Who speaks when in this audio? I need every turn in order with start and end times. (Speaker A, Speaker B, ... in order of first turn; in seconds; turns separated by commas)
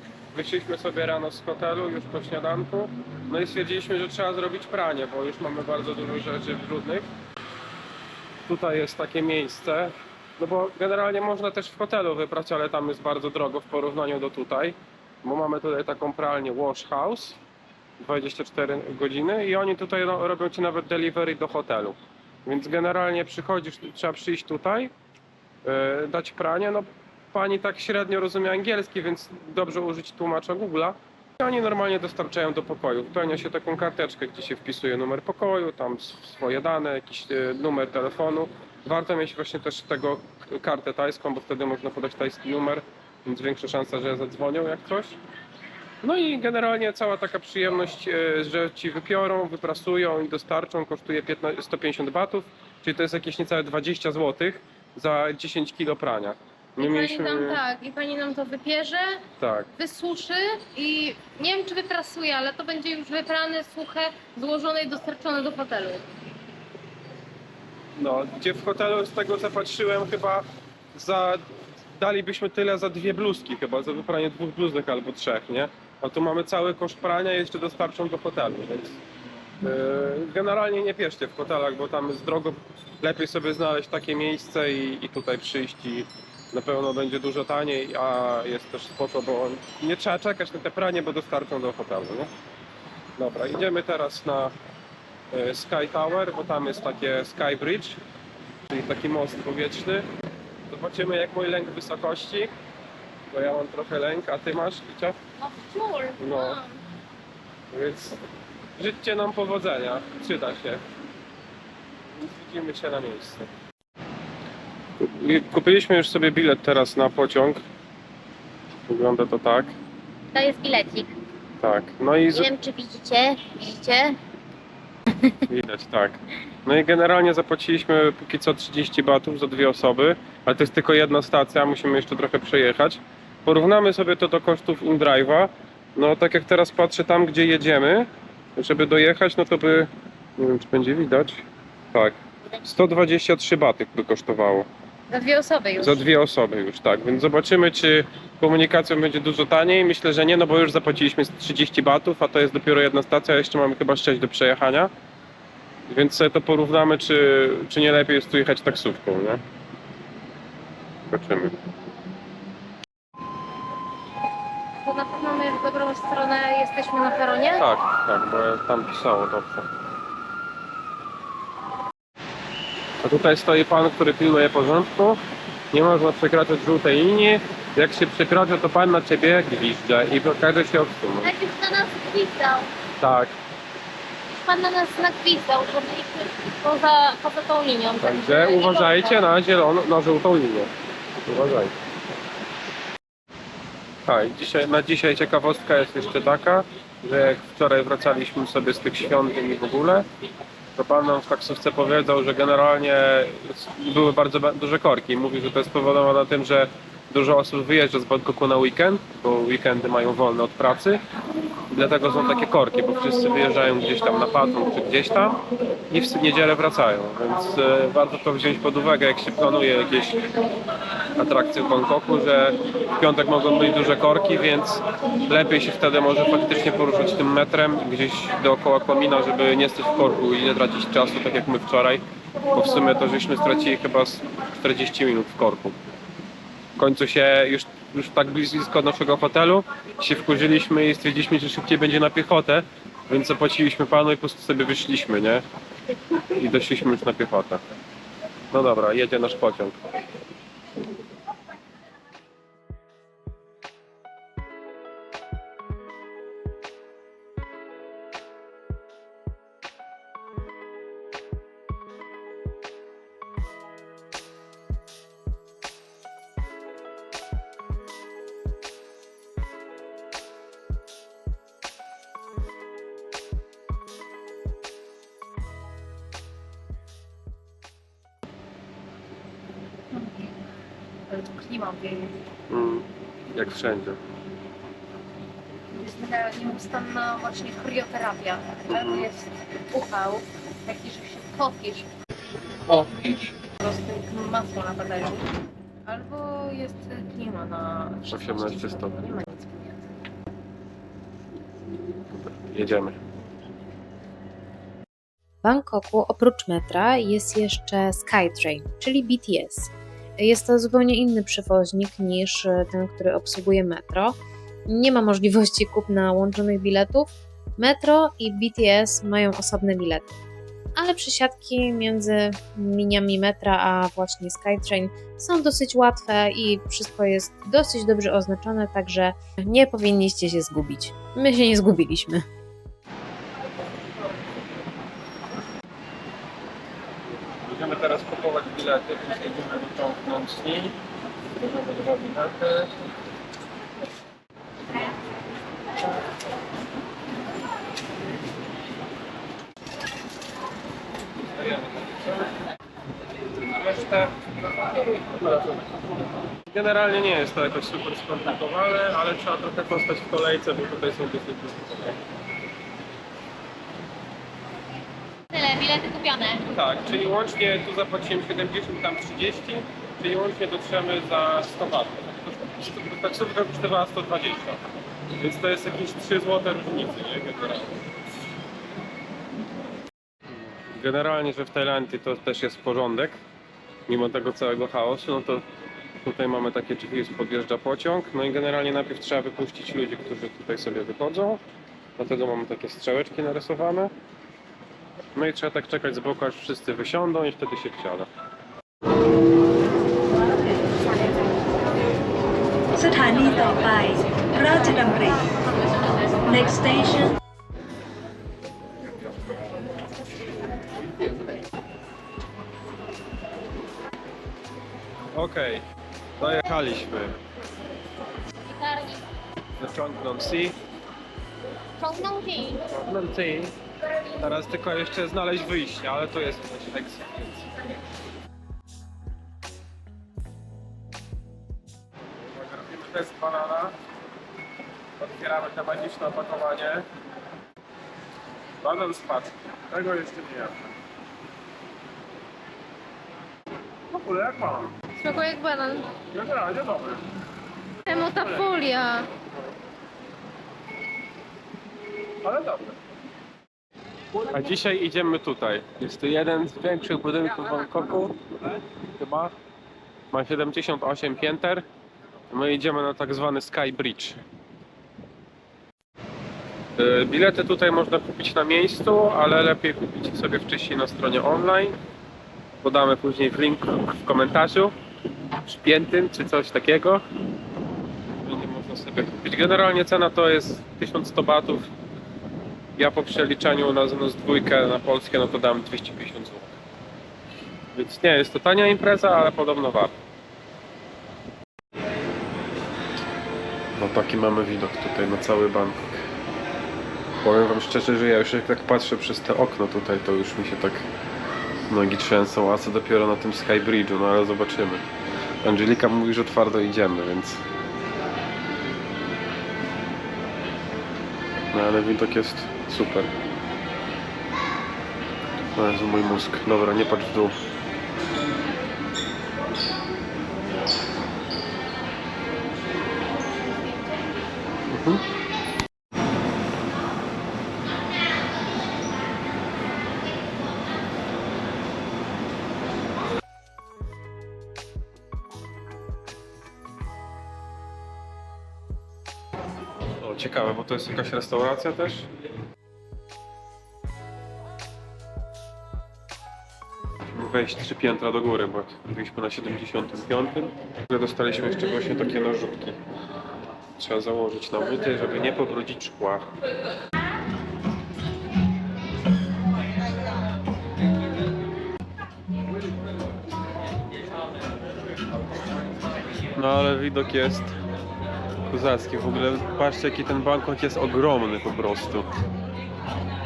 Speaker A: 0.3-7.1, Speaker A: 8.5-17.4, Speaker A: 18.0-24.9, Speaker A: 25.6-45.2, Speaker A: 46.0-57.6, Speaker B: 56.8-66.1, Speaker A: 59.4-59.7, Speaker A: 68.0-71.4, Speaker A: 72.0-79.0, Speaker A: 79.6-92.3, Speaker A: 93.2-94.5, Speaker A: 95.3-98.0, Speaker A: 98.7-100.1, Speaker A: 100.7-102.5, Speaker A: 103.3-105.2, Speaker B: 105.4-106.8, Speaker A: 106.2-106.6, Speaker A: 107.7-108.2, Speaker A: 108.8-110.8, Speaker A: 112.2-113.5, Speaker A: 115.0-117.6, Speaker A: 118.9-119.7, Speaker B: 120.3-121.1, Speaker A: 121.6-122.5, Speaker B: 122.3-124.2, Speaker A: 125.5-144.7, Speaker B: 145.1-146.0, Speaker A: 145.8-154.9, Speaker A: 155.9-159.4, Speaker A: 161.1-161.5, Speaker B: 164.8-167.6, Speaker A: 167.6-169.7, Speaker A: 173.0-175.2, Speaker A: 175.7-181.3, Speaker B: 181.2-182.7, Speaker A: 183.0-183.3, Speaker B: 184.3-189.2, Speaker A: 188.0-190.7, Speaker A: 191.3-191.8, Speaker A: 194.1-200.1, Speaker A: 200.8-211.0, Speaker A: 211.7-220.2, Speaker A: 221.2-235.8, Speaker A: 236.8-245.4, Speaker A: 246.3-247.6, Speaker A: 248.5-249.8, Speaker B: 279.9-280.3, Speaker B: 281.1-282.2, Speaker A: 282.5-284.0, Speaker B: 285.7-291.9, Speaker A: 288.7-289.1, Speaker B: 292.7-295.3, Speaker B: 295.9-299.9, Speaker A: 298.1-299.0, Speaker A: 302.3-303.0, Speaker C: 305.4-320.2, Speaker C: 320.8-332.2, Speaker A: 337.5-340.8, Speaker A: 341.4-342.7, Speaker A: 351.4-352.3, Speaker A: 353.4-354.1, Speaker A: 354.9-355.7, Speaker A: 356.5-362.0, Speaker B: 365.3-366.4, Speaker A: 366.5-374.6, Speaker A: 375.2-377.8, Speaker A: 380.7-383.2, Speaker A: 383.9-385.4, Speaker A: 386.0-391.4, Speaker A: 392.0-393.9, Speaker A: 395.1-398.1, Speaker D: 402.8-405.3, Speaker D: 406.3-407.2, Speaker A: 415.1-415.6, Speaker A: 416.2-417.2, Speaker B: 418.5-419.0, Speaker A: 419.6-420.6, Speaker B: 421.8-422.6, Speaker A: 422.7-423.6, Speaker A: 424.2-427.5, Speaker A: 432.2-433.8, Speaker A: 435.0-436.9, Speaker A: 438.6-440.7, Speaker A: 443.9-444.8, Speaker B: 445.0-445.9, Speaker A: 446.1-447.0, Speaker B: 447.9-449.1, Speaker A: 452.2-452.8, Speaker A: 454.3-458.1, Speaker A: 459.0-459.3, Speaker A: 460.1-461.7, Speaker A: 462.3-464.2, Speaker A: 466.8-471.8, Speaker A: 472.6-474.7, Speaker A: 475.4-477.0, Speaker A: 478.2-481.6, Speaker A: 482.8-486.6, Speaker A: 487.7-489.9, Speaker A: 493.8-496.1, Speaker A: 497.2-500.9, Speaker A: 501.7-504.9, Speaker A: 505.4-507.4, Speaker A: 511.5-513.1, Speaker A: 515.6-517.4, Speaker A: 524.7-525.0, Speaker A: 540.0-542.1, Speaker A: 547.1-552.8, Speaker A: 553.8-556.3, Speaker A: 566.4-567.6, Speaker A: 568.5-572.1